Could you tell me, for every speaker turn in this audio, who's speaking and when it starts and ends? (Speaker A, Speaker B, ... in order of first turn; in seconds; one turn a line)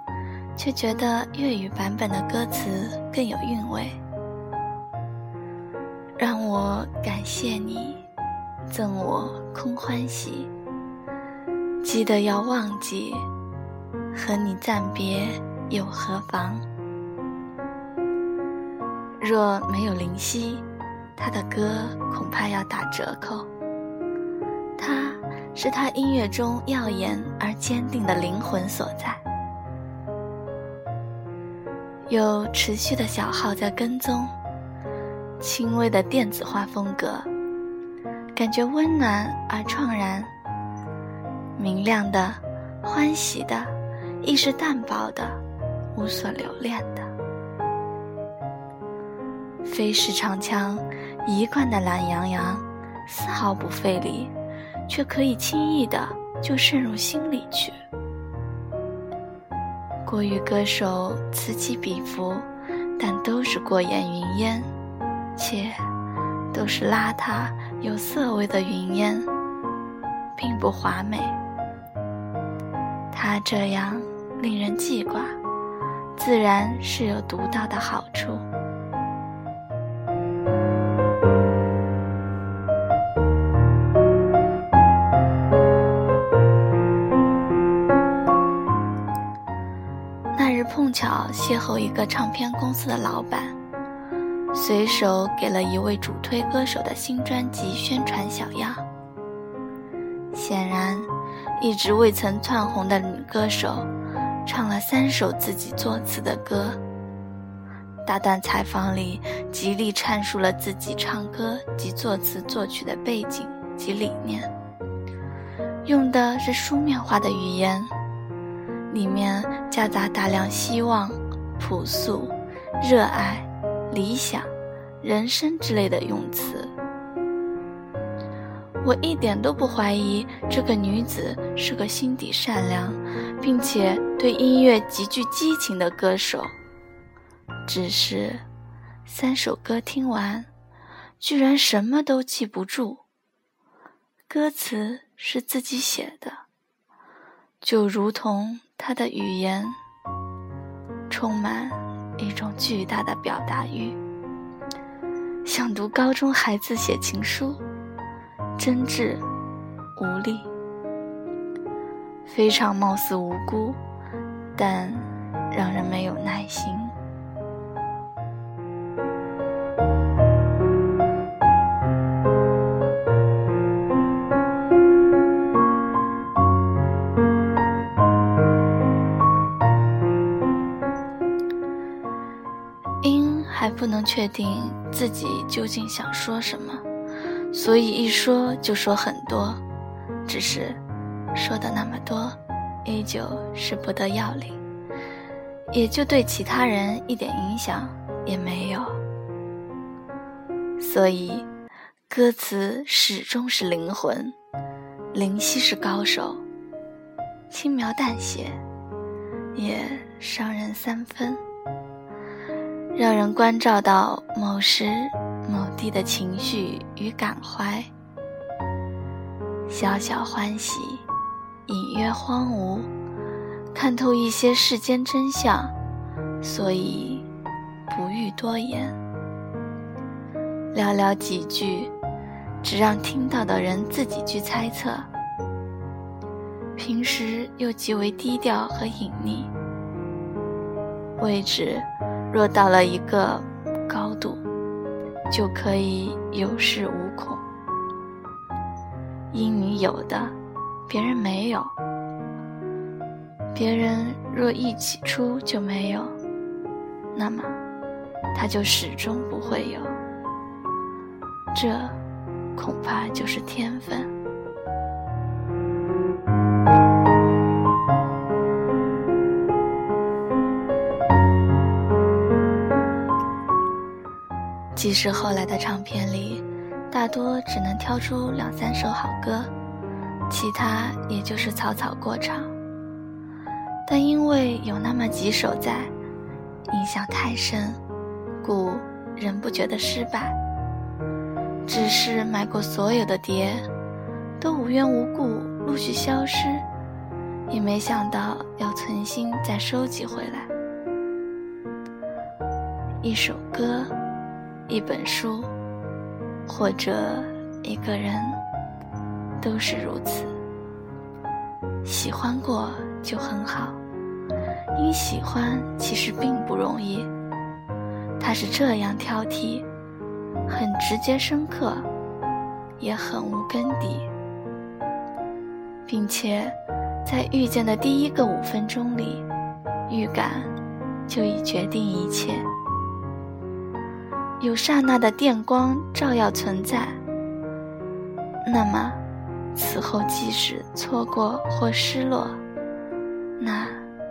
Speaker A: 0.6-4.0
Speaker A: 6.2-8.0
Speaker A: 8.7-10.5
Speaker A: 11.8-13.3
Speaker A: 14.1-16.6
Speaker A: 19.2-20.6
Speaker A: 21.1-23.5
Speaker A: 24.8-29.2
Speaker A: 32.1-34.3
Speaker A: 35.4-37.3
Speaker A: 38.3-40.3
Speaker A: 41.5-45.4
Speaker A: 45.9-47.1
Speaker A: 49.6-54.3
Speaker A: 54.9-57.8
Speaker A: 60.0-64.7
Speaker A: 65.3-65.8
Speaker A: 66.5-69.3
Speaker A: 70.3-71.4
Speaker A: 73.1-75.4
Speaker A: 76.2-78.5
Speaker A: 90.3-93.5
Speaker A: 94.5-98.8
Speaker A: 100.3-103.9
Speaker A: 104.4-106.8
Speaker A: 108.0-114.5
Speaker A: 115.8-117.9
Speaker A: 118.9-126.7
Speaker A: 128.8-136.5
Speaker A: 137.7-138.4
Speaker A: 139.1-140.5
Speaker A: 141.2-143.0
Speaker A: 144.3-146.4
Speaker A: 147.6-149.8
Speaker A: 151.1-154.0
Speaker A: 155.4-157.6
Speaker A: 158.6-159.2
Speaker A: 159.9-160.5
Speaker A: 162.2-163.8
Speaker A: 164.6-166.9
Speaker A: 183.0-186.8
Speaker A: 187.5-189.6
Speaker A: 190.2-190.8
Speaker A: 191.3-194.6
Speaker A: 195.7-199.0
Speaker A: 200.8-201.5
Speaker A: 202.1-204.3
Speaker A: 205.1-206.4
Speaker A: 207.5-208.6
Speaker A: 209.5-211.4
Speaker A: 212.9-217.9
Speaker A: 219.7-221.1
Speaker A: 221.7-222.9
Speaker A: 223.7-225.7
Speaker A: 226.4-227.3
Speaker A: 227.9-228.9
Speaker A: 230.7-231.9
Speaker A: 232.6-235.1
Speaker A: 236.8-239.5
Speaker A: 241.2-244.4
Speaker A: 245.3-247.4
Speaker A: 249.3-250.3
Speaker A: 250.9-251.7
Speaker A: 253.5-256.1
Speaker A: 257.1-257.6
Speaker A: 258.3-259.9
Speaker A: 261.5-262.0
Speaker A: 262.5-264.1
Speaker A: 274.7-279.5
Speaker A: 280.3-282.5
Speaker A: 283.9-285.9
Speaker A: 286.7-287.8
Speaker A: 288.4-290.4
Speaker A: 291.6-293.7
Speaker A: 294.4-296.6
Speaker A: 297.5-300.5
Speaker A: 303.0-303.9
Speaker A: 304.7-305.5
Speaker A: 306.4-308.4
Speaker A: 309.4-310.3
Speaker A: 311.8-313.8
Speaker A: 314.7-317.1
Speaker A: 318.2-319.6
Speaker A: 320.5-321.9
Speaker A: 322.8-324.1
Speaker A: 325.9-329.2
Speaker A: 329.9-330.5
Speaker A: 331.1-332.5
Speaker A: 334.4-337.0
Speaker A: 338.4-339.0
Speaker A: 339.5-342.4
Speaker A: 343.4-343.8